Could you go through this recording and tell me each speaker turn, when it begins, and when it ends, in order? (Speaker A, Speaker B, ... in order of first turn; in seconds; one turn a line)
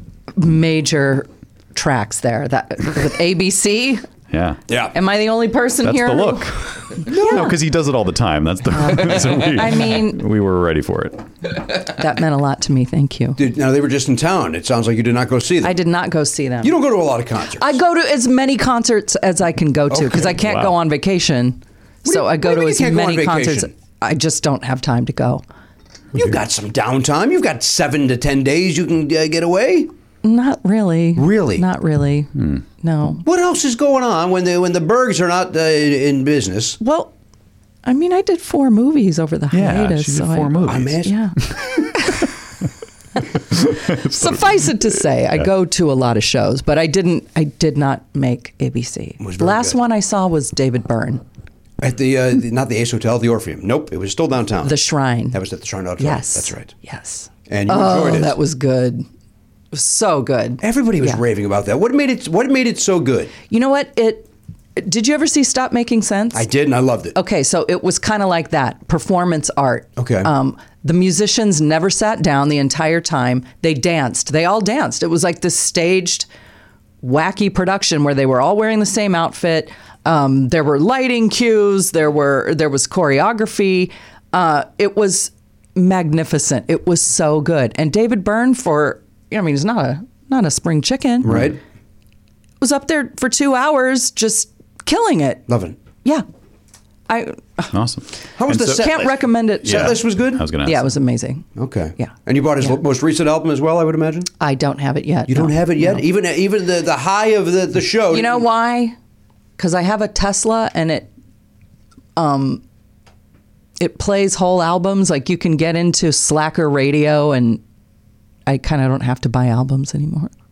Speaker A: 0.3-4.0
Speaker B: 4.3-4.6
Speaker C: 4.7-5.0
Speaker A: 4.9-7.6
Speaker B: 5.8-11.2
Speaker C: 7.1-7.5
Speaker A: 8.7-10.2
Speaker A: 11.8-13.4
Speaker C: 13.4-15.8
Speaker A: 15.6-16.8
Speaker C: 16.6-17.8
Speaker A: 17.5-25.4
Speaker C: 19.9-20.4
Speaker B: 20.4-20.7
Speaker C: 22.1-23.7
Speaker C: 26.1-29.9
Speaker A: 30.2-33.2
Speaker C: 31.2-31.6
Speaker B: 32.4-32.6
Speaker C: 33.2-36.8
Speaker A: 36.8-37.1
Speaker A: 37.8-42.3
Speaker B: 39.5-42.2
Speaker C: 40.6-41.1
Speaker B: 43.4-44.7
Speaker A: 44.0-51.2
Speaker C: 49.2-49.8
Speaker C: 51.8-54.8
Speaker A: 54.6-55.4
Speaker C: 55.3-56.7
Speaker A: 56.0-59.1
Speaker C: 57.5-58.4
Speaker A: 59.7-61.2
Speaker C: 60.6-63.3
Speaker A: 63.5-66.5
Speaker C: 66.3-67.2
Speaker A: 67.1-76.3
Speaker C: 70.0-70.3
Speaker A: 77.0-91.5
Speaker C: 91.2-91.6
Speaker A: 92.6-95.4
Speaker C: 95.5-95.8
Speaker A: 97.1-97.8
Speaker B: 97.7-98.8
Speaker C: 98.4-100.5
Speaker A: 98.6-102.8
Speaker B: 99.6-100.9
Speaker C: 101.5-104.3
Speaker A: 104.4-106.0
Speaker C: 105.3-108.5
Speaker A: 108.1-109.0
Speaker A: 109.6-111.1
Speaker A: 112.2-112.6
Speaker A: 113.8-117.6
Speaker A: 118.5-120.3